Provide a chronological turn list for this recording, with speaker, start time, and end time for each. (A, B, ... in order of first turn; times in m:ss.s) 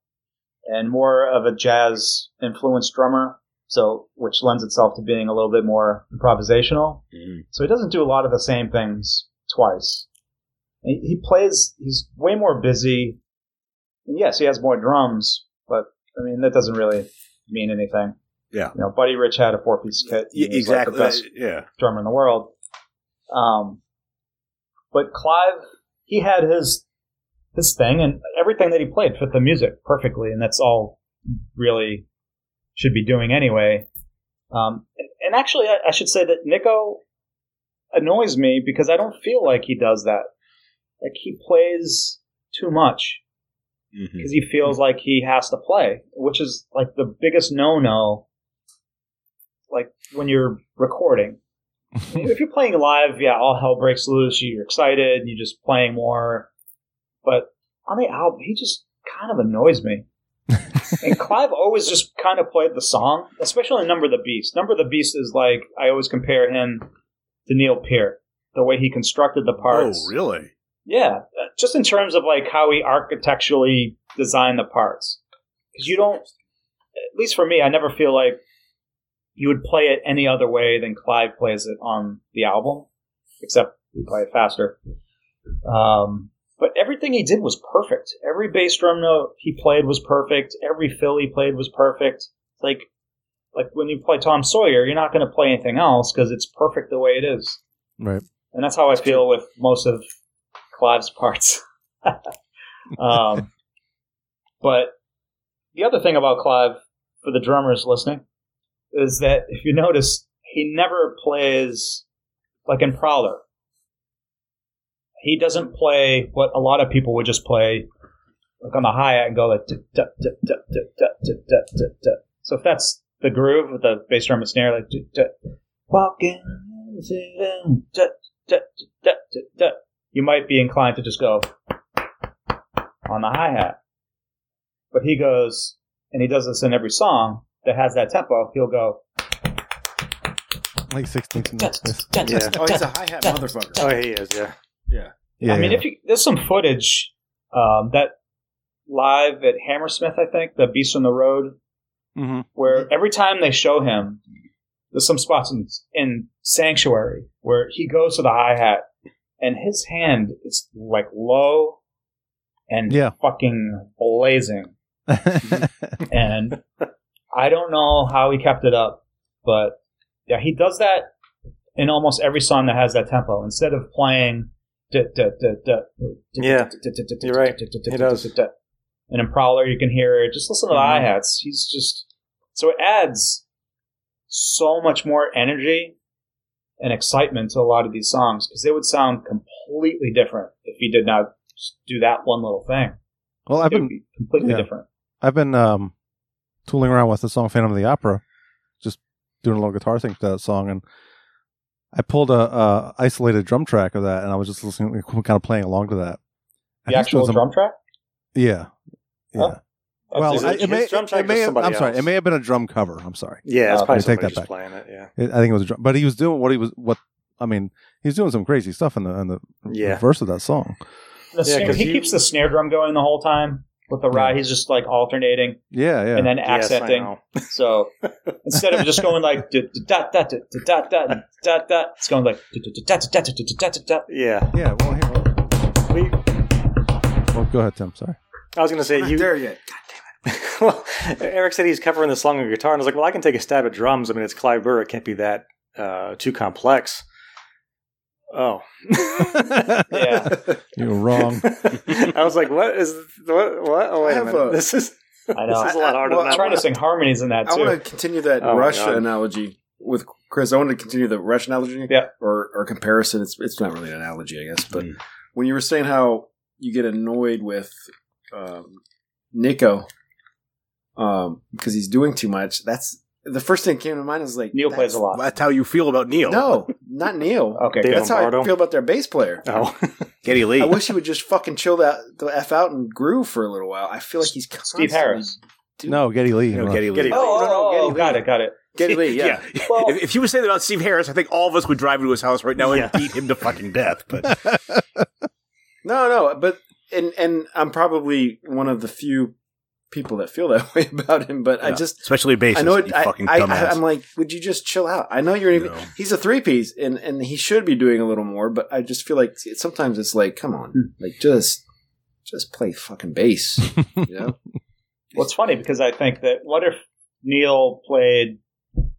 0:00.7-0:10.1 A
0:07.1-0:07.4 B
0:10.8-0:13.2 A
0:14.1-0:18.2 A
0:18.7-0:22.5 A
0:20.3-0:21.7 B
0:23.3-0:23.8 A
0:24.9-0:26.8 A
0:27.6-0:31.0 A
0:31.6-0:32.1 A
0:32.8-0:33.9 A
0:34.5-0:37.0 A
0:37.9-0:40.3 A
0:41.0-0:43.2 A
0:43.9-0:44.3 B
0:44.2-0:48.2 A
0:49.7-0:51.4 A
0:52.1-0:56.5 A
0:57.2-1:00.1 A
1:01.0-1:06.9 A
1:07.5-1:10.1 A
1:09.6-1:10.5 B
1:10.9-1:15.2 A
1:15.7-1:16.3 A
1:17.2-1:18.4 A
1:19.4-1:22.9 A
1:23.4-1:24.8 A
1:25.6-1:32.9 A
1:33.5-1:37.6 A
1:38.5-1:40.1 A
1:40.7-1:42.2 A
1:43.0-1:43.5 A
1:44.6-1:45.0 A
1:45.8-1:48.2 A
1:48.9-1:52.0 A
1:52.7-1:53.4 A
1:55.2-1:57.9 A
1:58.6-2:05.3 A
2:05.9-2:11.5 A
2:13.1-2:13.8 A
2:14.9-2:19.0 A
2:20.9-2:22.6 C
2:21.6-2:23.9 A
2:22.2-2:22.6 D
2:22.5-2:24.0 E
2:23.8-2:24.5 D
2:25.4-2:25.8 C
2:25.4-2:28.2 A
2:28.9-2:31.6 A
2:32.2-2:32.5 C
2:32.6-2:34.2 A
2:34.9-2:38.8 A
2:39.4-2:41.8 A
2:42.7-2:44.7 A
2:42.9-2:43.2 C
2:45.1-2:46.0 C
2:46.1-2:46.6 A
2:47.3-2:49.8 A
2:50.3-2:51.1 A
2:51.8-2:58.5 A
2:56.4-2:58.3 D
2:59.1-3:03.4 A
3:00.8-3:01.0 D
3:04.3-3:06.0 A
3:06.8-3:13.0 A
3:13.5-3:14.7 C
3:13.7-3:14.9 A
3:15.2-3:15.9 C
3:16.7-3:18.2 C
3:18.8-3:20.8 C
3:21.9-3:26.2 C
3:26.9-3:27.5 C
3:26.9-3:27.8 A
3:28.4-3:28.7 C
3:30.1-3:30.7 A
3:30.1-3:34.5 C
3:30.2-3:32.1 D
3:33.5-3:35.1 D
3:33.7-3:34.0 A
3:35.2-3:40.8 C
3:39.7-3:40.0 D
3:41.3-3:45.6 A
3:41.4-3:42.2 D
3:45.7-3:46.4 C
3:46.1-3:47.9 A
3:46.5-3:47.4 D
3:48.4-3:54.1 A
3:54.1-3:54.5 D
3:54.5-3:55.3 C
3:55.9-3:56.2 D
3:57.3-3:58.2 C
3:58.6-3:59.4 D
3:58.9-3:59.8 E
4:00.2-4:07.0 D
4:08.3-4:09.7 D
4:09.0-4:11.8 C
4:09.9-4:10.4 A
4:11.2-4:16.7 D
4:14.0-4:14.7 E
4:15.3-4:17.8 A
4:15.5-4:16.7 E
4:17.4-4:27.8 E
4:18.4-4:19.1 D
4:28.3-4:28.8 E
4:29.3-4:29.9 E
4:31.0-4:35.0 E
4:34.5-4:35.2 A
4:35.1-4:36.7 B
4:36.2-4:39.5 E
4:37.6-4:38.1 A
4:37.8-4:38.6 D
4:39.4-4:40.1 D
4:40.2-4:40.8 B
4:40.6-4:46.2 E
4:44.6-4:45.4 A
4:45.9-4:47.1 C
4:46.5-4:48.2 B
4:47.0-4:47.5 D
4:47.1-4:48.6 A
4:47.1-4:48.1 E
4:48.8-4:49.5 E
4:48.8-4:54.4 B
4:49.6-4:50.0 A
4:52.6-4:53.1 D
4:54.3-4:54.8 C
4:55.8-4:59.4 E
4:59.9-5:11.6 E
5:01.6-5:03.8 B
5:05.5-5:05.9 B
5:12.3-5:14.4 E
5:15.1-5:18.4 A